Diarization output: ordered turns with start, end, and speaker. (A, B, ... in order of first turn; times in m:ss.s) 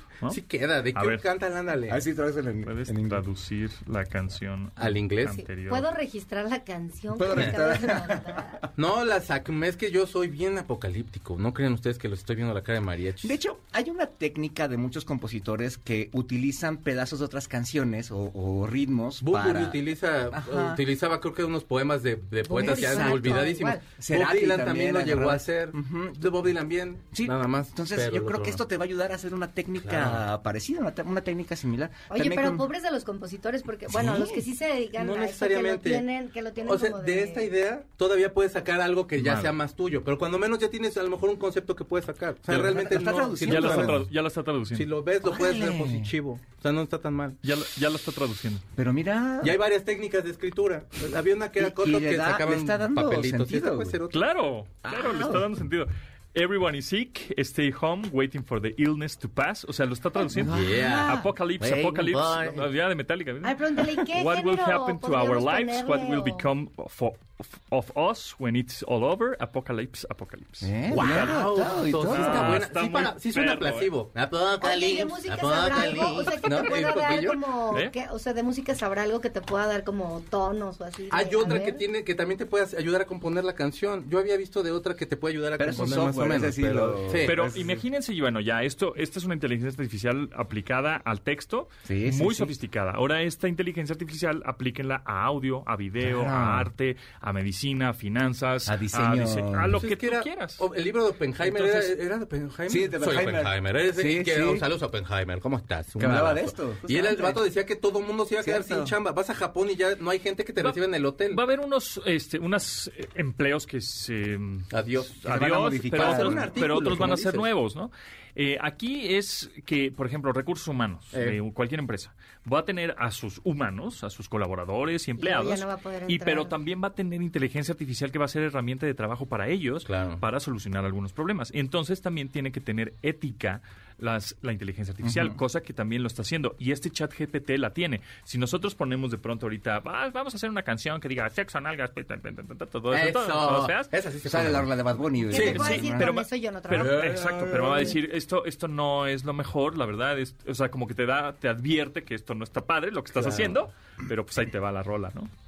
0:00.3-0:02.0 A
0:00.9-0:01.2 B
0:01.9-0:03.2 C
0:02.6-0:05.9 B
0:04.8-0:05.4 A
0:05.3-0:08.6 D
0:07.2-0:08.7 C
0:08.8-0:13.4 A
0:13.2-0:19.8 C
0:19.2-0:28.6 A
0:20.3-0:20.8 C
0:22.4-0:23.8 D
0:22.6-0:26.2 C
0:27.1-0:32.7 C
0:29.8-0:30.2 A
0:32.1-0:37.5 D
0:33.9-0:34.4 C
0:35.0-0:36.1 A
0:36.6-0:44.1 A
0:39.2-0:39.5 B
0:42.5-0:44.0 C
0:42.5-0:42.8 B
0:43.4-0:44.9 B
0:44.7-0:47.4 A
0:45.2-0:46.1 C
0:47.4-0:48.6 B
0:48.8-0:49.6 C
0:49.4-0:54.2 A
0:51.6-0:54.0 C
0:54.1-1:13.9 B
0:54.8-0:55.5 C
1:00.3-1:01.3 C
1:00.4-1:02.6 A
1:03.4-1:06.4 D
1:10.6-1:12.6 C
1:10.9-1:17.4 A
1:14.6-1:21.8 D
1:21.1-1:27.4 A
1:25.6-1:27.8 C
1:27.2-1:40.7 B
1:31.9-1:32.5 C
1:36.0-1:36.7 C
1:38.7-1:39.8 C
1:39.8-1:51.4 A
1:41.4-1:42.0 B
1:42.7-1:44.7 C
1:46.0-1:47.5 C
1:48.4-1:49.0 C
1:50.6-2:23.9 B
1:54.7-1:55.4 A
1:55.2-1:57.1 C
1:56.0-1:57.5 A
2:05.2-2:06.5 D
2:09.9-2:10.2 A
2:15.0-2:15.4 C
2:22.9-2:24.8 A
2:24.2-2:26.1 C
2:25.3-2:27.2 D
2:25.3-2:25.7 A
2:25.4-2:35.3 B
2:26.7-2:28.0 A
2:33.2-2:33.6 A